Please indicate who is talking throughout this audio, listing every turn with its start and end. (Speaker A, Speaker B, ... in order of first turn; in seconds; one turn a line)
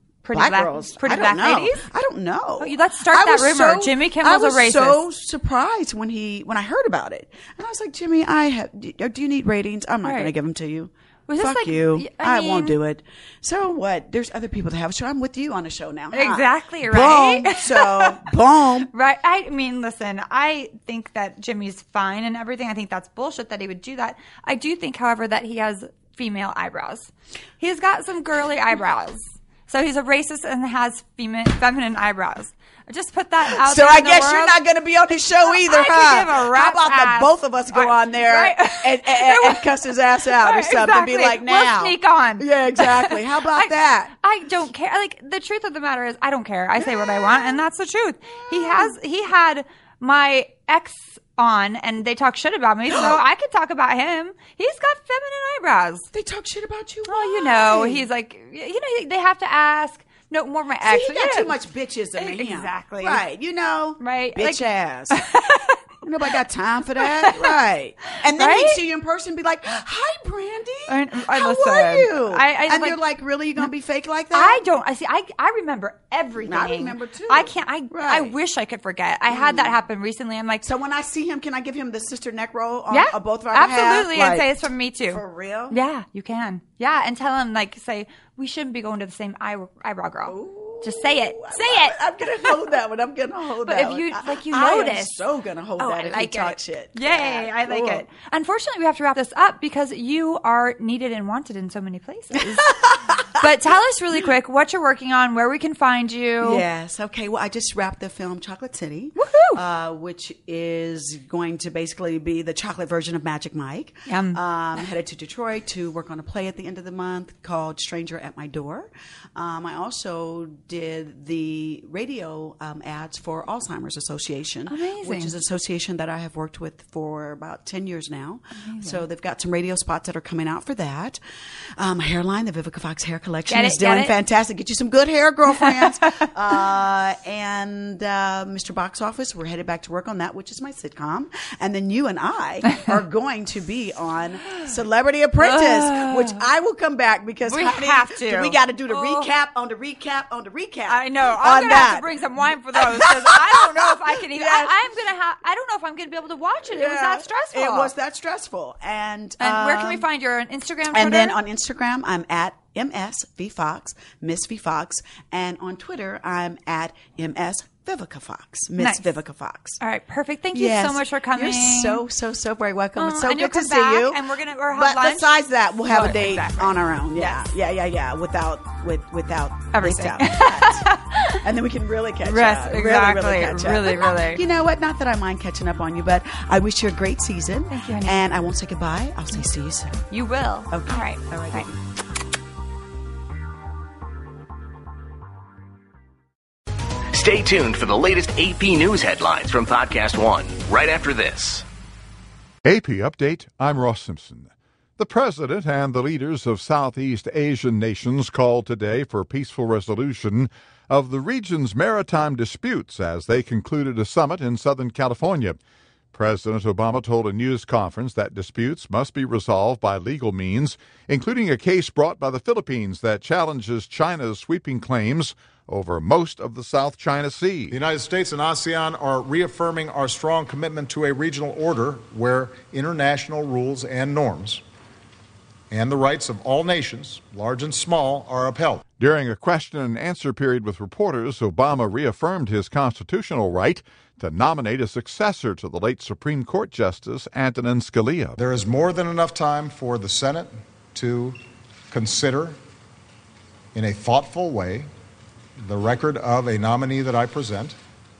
Speaker A: 0.2-1.9
Speaker B: 0.3-18.9
Speaker A: 2.6-5.0
Speaker A: 10.1-10.3
Speaker A: 11.3-12.8
Speaker A: 16.1-18.3
Speaker A: 18.9-34.6
Speaker B: 33.4-44.1
Speaker A: 35.5-39.7
Speaker A: 40.2-56.1
Speaker B: 46.8-47.6
Speaker B: 48.3-48.9
Speaker B: 52.9-53.2
Speaker B: 56.1-58.1
Speaker A: 57.1-61.5
Speaker B: 60.8-65.3
Speaker A: 62.2-63.2
Speaker A: 64.0-65.8
Speaker B: 66.0-74.6
Speaker A: 67.0-67.5
Speaker A: 68.3-68.8
Speaker A: 70.9-73.0
Speaker A: 74.3-80.7
Speaker B: 76.4-78.3
Speaker B: 79.3-79.8
Speaker B: 80.6-84.5
Speaker A: 82.9-92.7
Speaker B: 85.1-85.8
Speaker B: 90.2-98.0
Speaker A: 93.6-95.2
Speaker A: 95.8-102.8
Speaker B: 102.4-103.3
Speaker A: 103.3-106.6
Speaker B: 106.4-131.2
Speaker A: 109.2-109.6
Speaker A: 114.1-114.4
Speaker A: 124.7-125.3
Speaker A: 128.6-129.0
Speaker B: 131.8-152.1
Speaker A: 133.5-134.1
Speaker A: 145.4-146.4
Speaker A: 147.5-149.3
Speaker A: 150.9-157.9
Speaker B: 152.7-154.8
Speaker B: 156.7-160.1
Speaker A: 159.4-161.4
Speaker B: 160.9-169.8
Speaker A: 168.8-169.1
Speaker A: 169.8-172.0
Speaker B: 170.5-190.1
Speaker A: 173.0-175.3
Speaker A: 175.9-177.4
Speaker A: 179.7-181.4
Speaker A: 182.2-184.4
Speaker A: 187.7-188.2
Speaker A: 190.1-191.7
Speaker B: 190.7-191.8
Speaker C: 197.1-201.7
Speaker D: 202.7-215.6
Speaker D: 216.1-227.8
Speaker E: 227.7-234.6
Speaker E: 235.7-238.9
Speaker D: 238.9-248.4
Speaker E: 248.4-251.4
Speaker E: 251.9-252.6
Speaker E: 253.7-254.9
Speaker E: 255.6-257.8